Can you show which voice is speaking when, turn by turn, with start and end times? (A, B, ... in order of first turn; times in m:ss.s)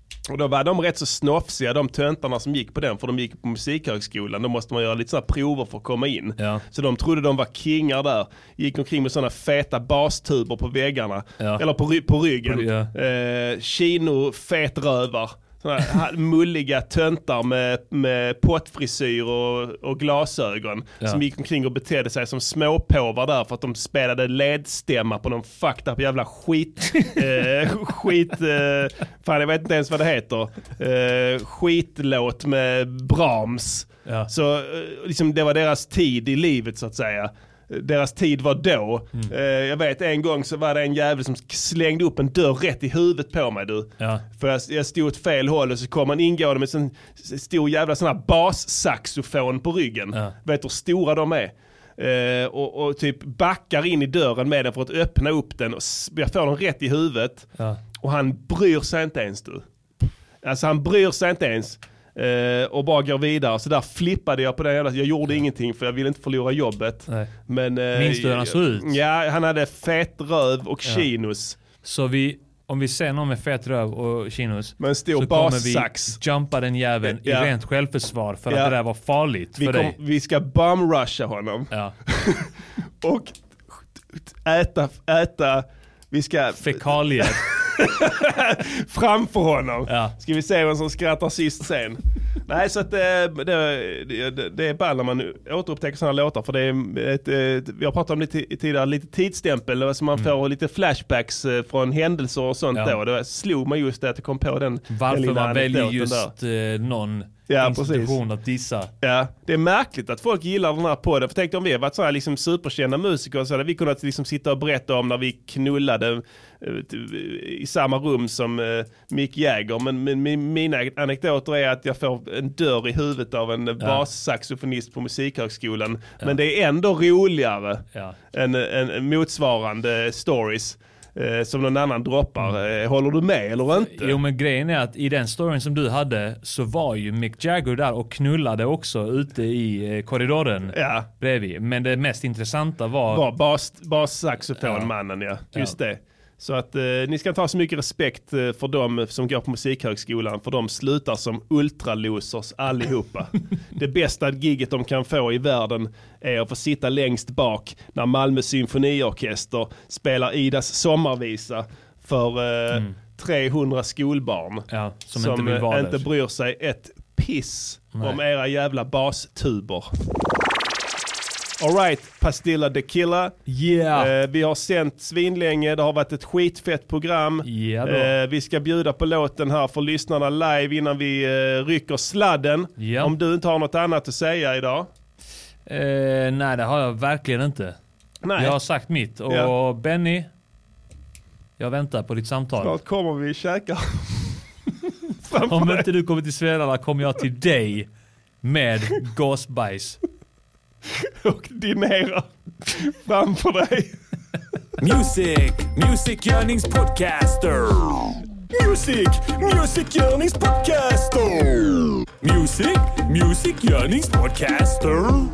0:00.3-0:59.6 A
0:11.4-0:11.6 B
0:12.4-0:12.9 B
0:44.0-0:44.2 B
1:00.4-1:11.6 A
1:07.9-1:09.0 B
1:11.8-1:20.0 B
1:14.8-1:16.2 A
1:17.0-1:17.5 A
1:18.5-1:18.8 A
1:19.6-1:22.5 A
1:23.0-1:46.3 A
1:26.6-1:27.5 B
1:29.9-1:30.2 B
1:44.9-1:48.9 B
1:47.5-1:48.2 A
1:49.0-2:14.2 A
2:13.8-2:23.2 B
2:20.7-2:21.1 A
2:23.1-2:49.9 A
2:24.6-2:24.9 B
2:44.7-2:46.1 B
2:51.6-2:53.4 A
2:53.5-2:54.1 B
2:53.9-3:04.9 A
2:57.4-2:58.1 B
3:02.8-3:03.2 B
3:05.7-3:07.8 B
3:08.2-3:08.6 A
3:08.4-3:10.3 B
3:11.6-3:12.7 B
3:12.6-3:14.4 A
3:15.2-3:15.9 A
3:15.5-3:17.9 B
3:18.4-3:20.0 B
3:21.0-3:24.0 A
3:24.8-3:27.7 B
3:25.7-3:27.8 C
3:28.7-3:34.9 C
3:32.4-3:35.1 B